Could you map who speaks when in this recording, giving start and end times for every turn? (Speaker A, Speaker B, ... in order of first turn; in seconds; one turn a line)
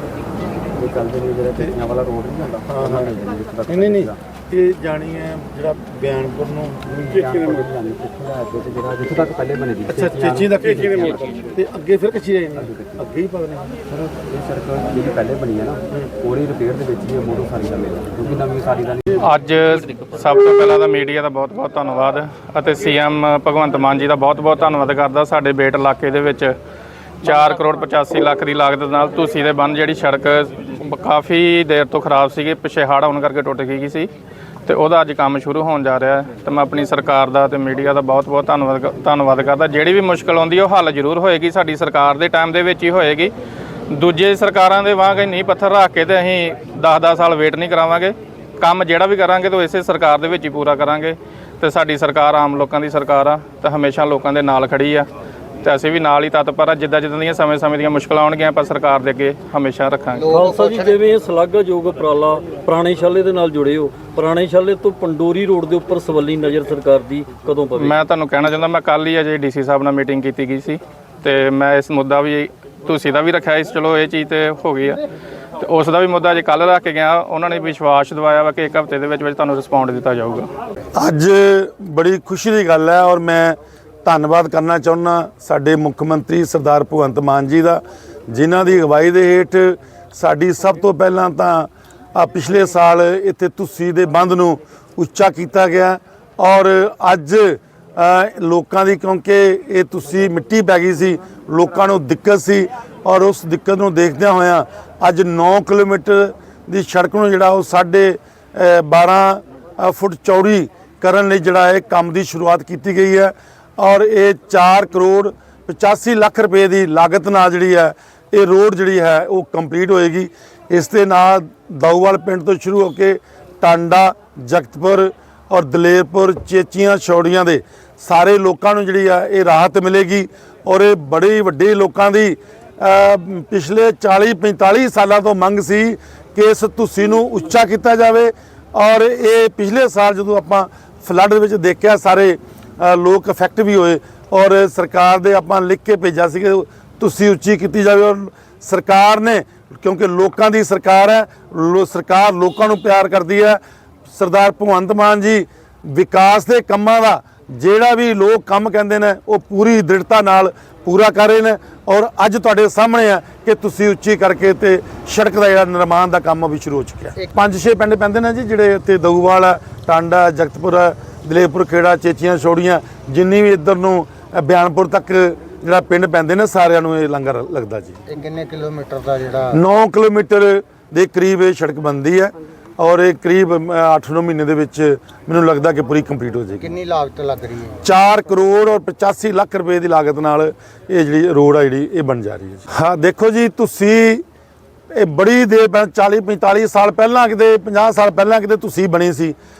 Speaker A: 0.7-4.2
Speaker B: 1.5-1.8
Speaker B: 2.6-7.6
Speaker A: 6.9-11.1
Speaker B: 9.9-13.8
Speaker A: 12.6-13.0
Speaker A: 13.9-19.0
Speaker C: 19.2-26.5
Speaker C: 27.2-34.1
Speaker C: 34.6-43.3
Speaker C: 43.9-55.1
Speaker C: 55.6-60.3
Speaker D: 60.2-61.0
Speaker E: 60.3-68.0
Speaker C: 67.8-75.0
Speaker C: 75.6-80.5
Speaker B: 80.9-178.0
Speaker D: 178.1-179.6
Speaker B: 179.5-186.7
Speaker D: 186.6-187.8
Speaker B: 187.8-194.2
Speaker B: 194.9-199.4